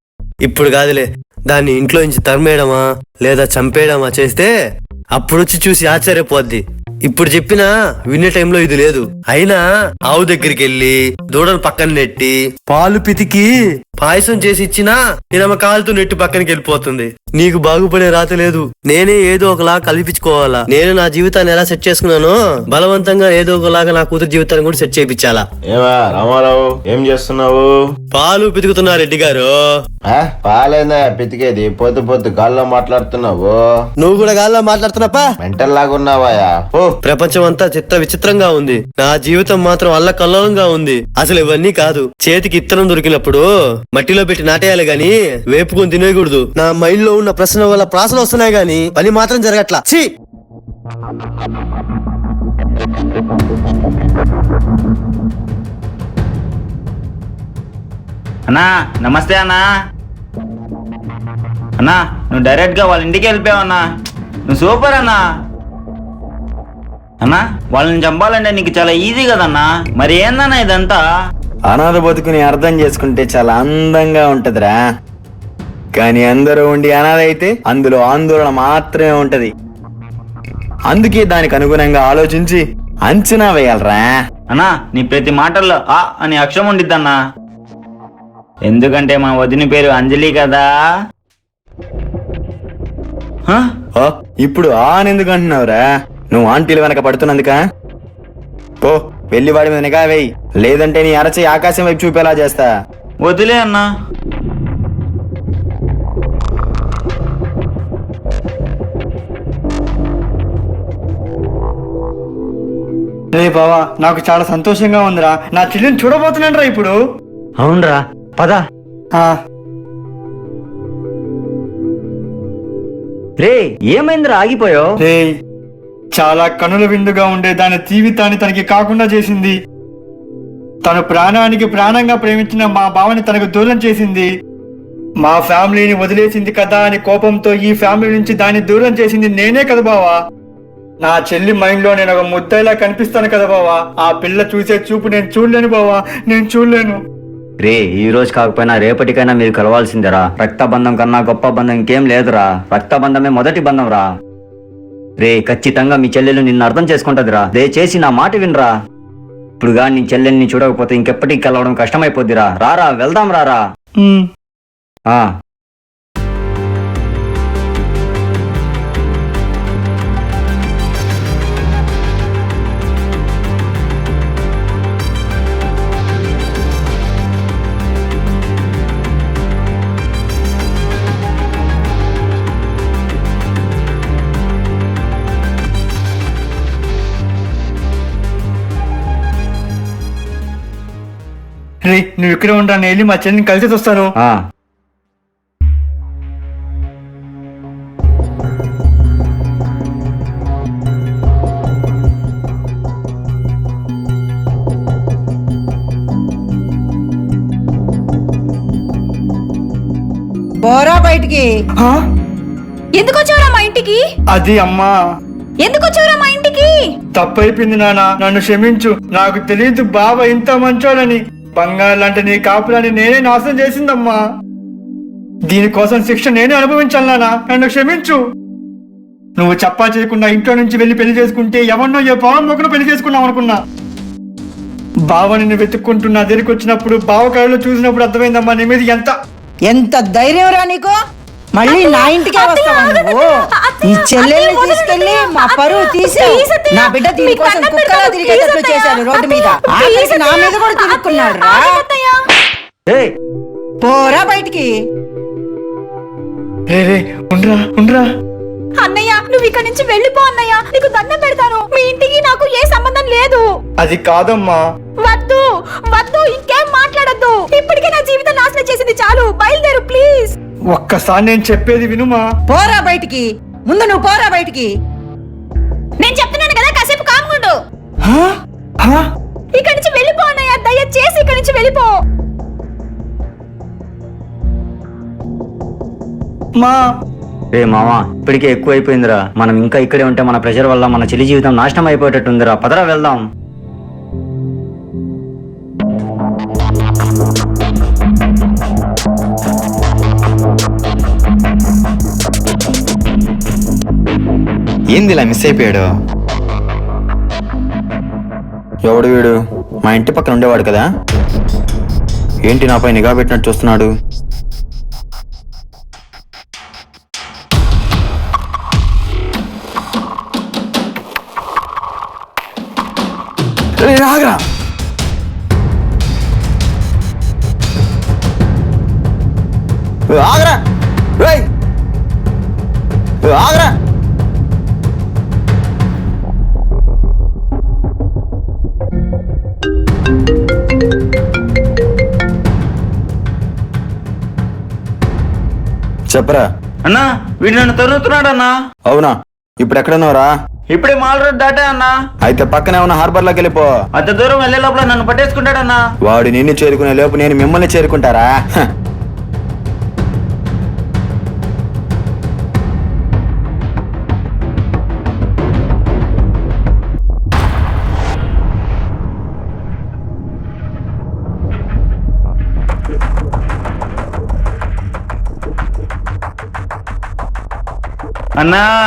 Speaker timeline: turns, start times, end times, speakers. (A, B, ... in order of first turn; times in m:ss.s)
0:00.4-0:04.5 A
0:05.1-0:25.4 A
0:25.7-0:27.8 B
0:28.1-0:29.6 A
0:30.1-0:33.6 B
0:34.0-0:35.3 A
0:35.4-0:36.9 B
0:37.0-0:50.0 A
0:58.5-0:59.6 C
1:01.8-1:03.8 C
1:04.5-1:05.2 C
1:07.2-1:11.0 C
1:11.7-1:14.8 D
1:15.9-1:19.5 D
1:20.9-1:24.1 D
1:24.5-1:27.1 C
1:28.6-1:30.6 C
1:34.0-1:37.6 D
1:38.8-1:42.7 D
1:43.2-1:43.8 C
1:53.3-1:56.9 E
1:57.6-1:58.6 F
2:03.4-2:04.9 F
2:05.0-2:05.3 E
2:06.1-2:09.5 E
2:10.8-2:14.3 E
2:15.2-2:20.2 E
2:21.0-2:27.0 E
2:27.6-2:34.0 F
2:35.2-2:38.7 F
2:39.6-2:43.6 F
2:44.0-2:44.2 E
3:11.8-3:14.1 E
3:30.6-3:31.5 G
3:33.0-3:34.0 H
3:34.3-3:34.9 E
3:35.6-3:36.7 H
3:37.1-3:44.2 E
3:45.5-3:48.2 E
3:49.4-3:53.6 E
3:55.1-3:59.1 E
3:59.7-4:00.9 G
4:01.5-4:03.3 G
4:01.6-4:12.2 H
4:03.8-4:11.8 G
4:13.8-4:14.7 G
4:16.7-4:18.0 E
4:18.8-4:23.4 H
4:23.8-4:24.6 E
4:25.0-4:30.3 H
4:30.7-4:32.2 E
4:32.5-4:34.7 G
4:36.0-4:37.5 H
4:38.0-4:39.0 E
4:39.5-4:41.9 H
4:47.5-4:53.2 F
5:04.9-5:05.9 D
5:08.8-5:10.9 D
5:12.4-5:13.9 D
5:23.8-5:24.4 D
5:30.1-5:30.6 D
5:31.2-5:31.4 D
5:33.2-5:33.7 D
5:46.1-5:46.4 D
5:46.8-5:48.5 C
5:48.9-5:50.3 D
5:50.7-5:51.9 C
5:52.2-5:53.7 D
5:54.0-5:55.8 C
5:56.0-5:58.6 D
6:18.4-6:18.7 C